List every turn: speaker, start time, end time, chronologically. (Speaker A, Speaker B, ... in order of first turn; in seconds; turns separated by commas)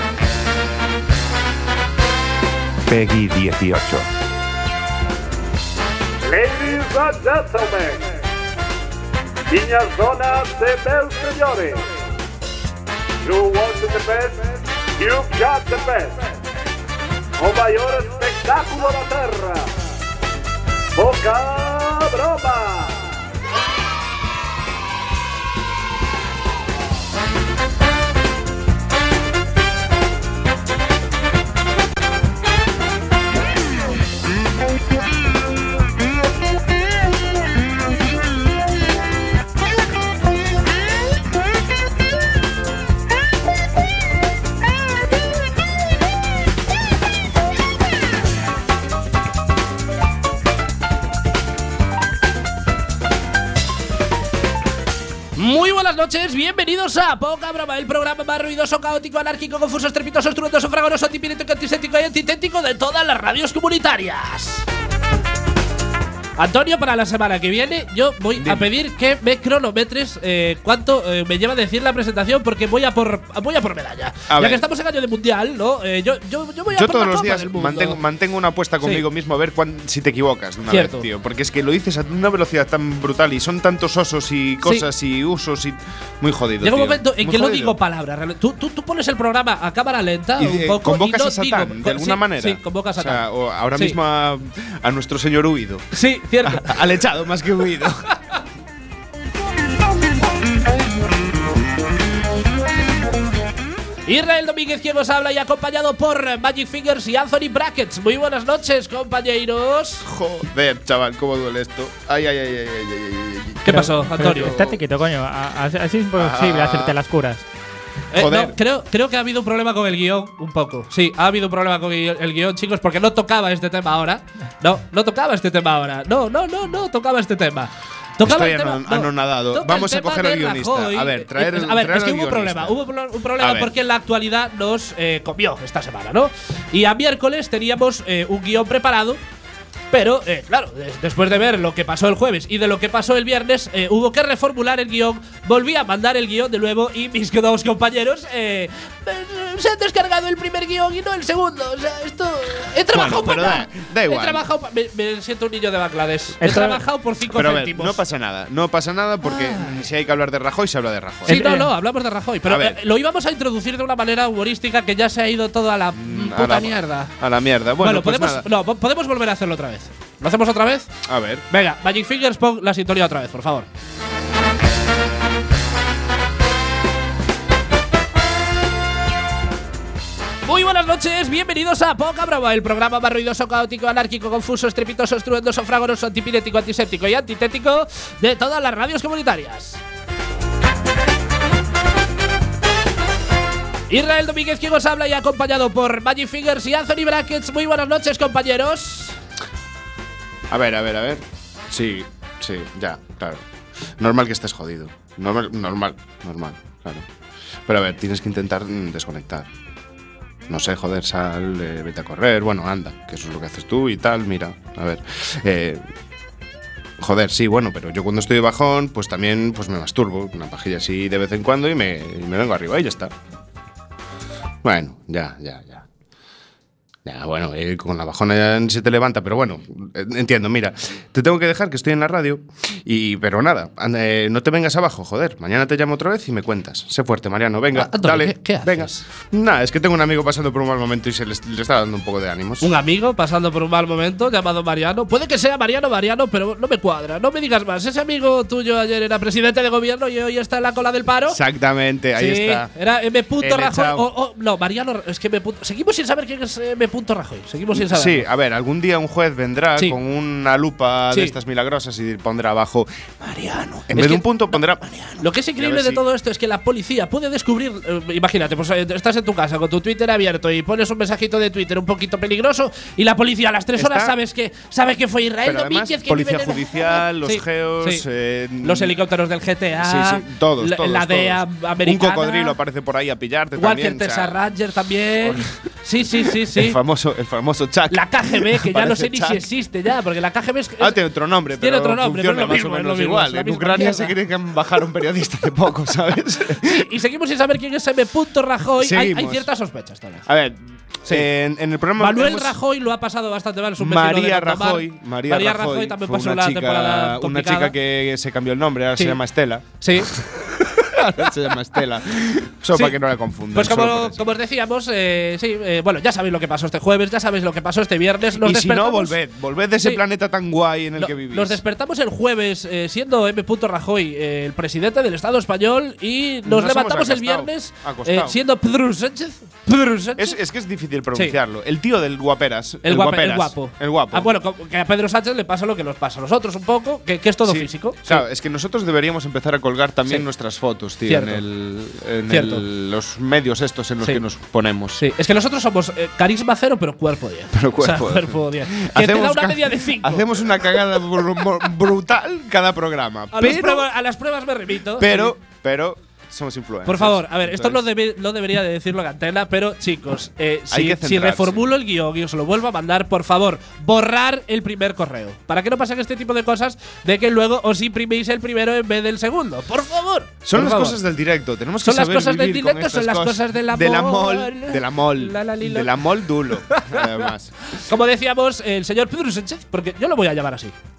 Speaker A: 3.0-4.0, Speaker B: 6.3-8.0, Speaker B: 9.5-11.7, Speaker B: 13.3-14.4, Speaker B: 15.0-16.1, Speaker B: 17.4-19.7, Speaker B: 21.0-22.9, Speaker C: 55.4-64.7, Speaker C: 66.4-78.0, Speaker A: 68.4-68.7, Speaker A: 74.3-74.6, Speaker A: 76.7-87.8, Speaker C: 80.7-81.1, Speaker C: 86.6-94.0, Speaker A: 90.4-98.1, Speaker C: 95.9-96.8, Speaker C: 104.1-110.1, Speaker A: 110.0-114.8, Speaker C: 113.7-114.6, Speaker D: 113.7-117.5, Speaker A: 116.2-117.0, Speaker C: 118.1-139.2, Speaker A: 118.2-118.5, Speaker A: 128.2-132.8, Speaker A: 133.4-133.7, Speaker C: 139.9-158.0, Speaker A: 152.9-154.4, Speaker D: 156.4-156.8, Speaker A: 157.3-161.5, Speaker C: 159.2-159.8, Speaker C: 161.3-167.2, Speaker D: 161.3-161.7, Speaker A: 162.5-162.8, Speaker A: 165.9-168.5, Speaker C: 167.8-170.9, Speaker A: 171.1-171.4, Speaker C: 171.5-173.7, Speaker C: 180.4-189.8, Speaker C: 193.9-199.2, Speaker A: 200.5-203.5, Speaker A: 204.0-207.1, Speaker A: 207.7-209.5, Speaker A: 210.5-215.8, Speaker A: 217.0-223.1, Speaker A: 224.6-225.9, Speaker A: 227.1-242.7, Speaker C: 237.7-239.0, Speaker C: 242.6-251.4, Speaker A: 251.3-252.7, Speaker C: 252.2-258.3, Speaker A: 253.4-254.1, Speaker A: 257.7-266.0, Speaker C: 263.9-264.3, Speaker C: 265.2-278.0, Speaker A: 273.8-274.1, Speaker A: 275.4-278.9, Speaker C: 278.6-282.6, Speaker A: 279.8-284.4, Speaker C: 283.6-286.8, Speaker A: 285.2-285.5, Speaker A: 286.2-289.5, Speaker C: 287.9-291.0, Speaker A: 290.8-296.9, Speaker C: 291.6-294.1, Speaker C: 296.6-300.3, Speaker A: 298.8-299.5, Speaker A: 300.3-302.6, Speaker C: 302.0-307.7, Speaker A: 303.8-314.2, Speaker C: 309.8-310.1, Speaker C: 313.5-319.2, Speaker A: 318.4-321.6, Speaker C: 321.0-330.4, Speaker A: 326.4-328.4, Speaker A: 330.2-334.3, Speaker C: 332.8-338.2, Speaker A: 337.4-345.0, Speaker C: 341.1-341.4, Speaker C: 342.3-342.6, Speaker C: 344.9-351.0, Speaker A: 347.5-353.9, Speaker C: 353.3-355.3, Speaker A: 355.0-357.8, Speaker C: 356.9-371.0, Speaker A: 360.7-361.7, Speaker A: 370.4-377.6, Speaker C: 371.8-375.9, Speaker C: 376.5-380.8